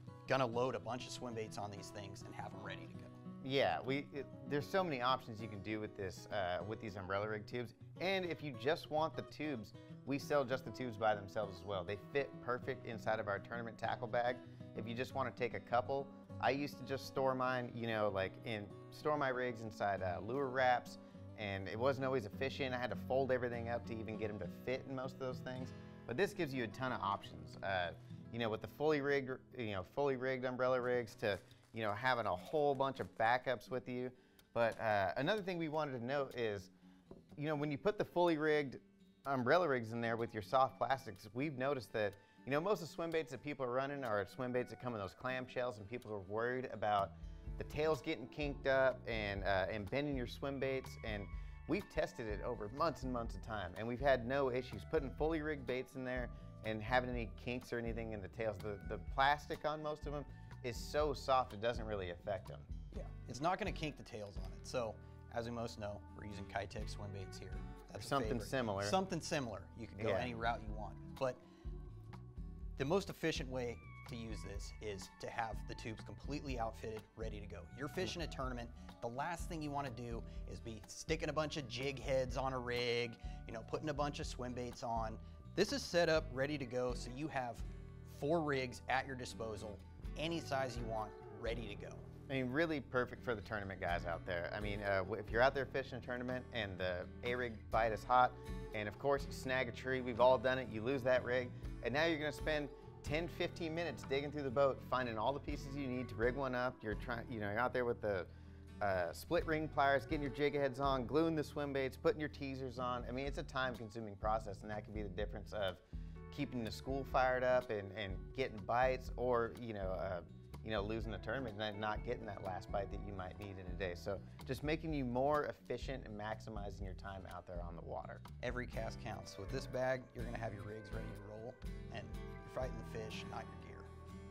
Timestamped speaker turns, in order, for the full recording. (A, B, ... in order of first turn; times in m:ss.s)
0:00.3-0:03.2 A
0:03.4-0:36.7 B
0:37.4-1:02.6 B
1:02.9-1:11.4 A
1:08.0-1:09.0 B
1:10.0-1:10.3 B
1:12.8-1:32.1 A
1:32.3-1:48.3 B
1:48.8-2:08.2 B
2:08.4-2:13.9 A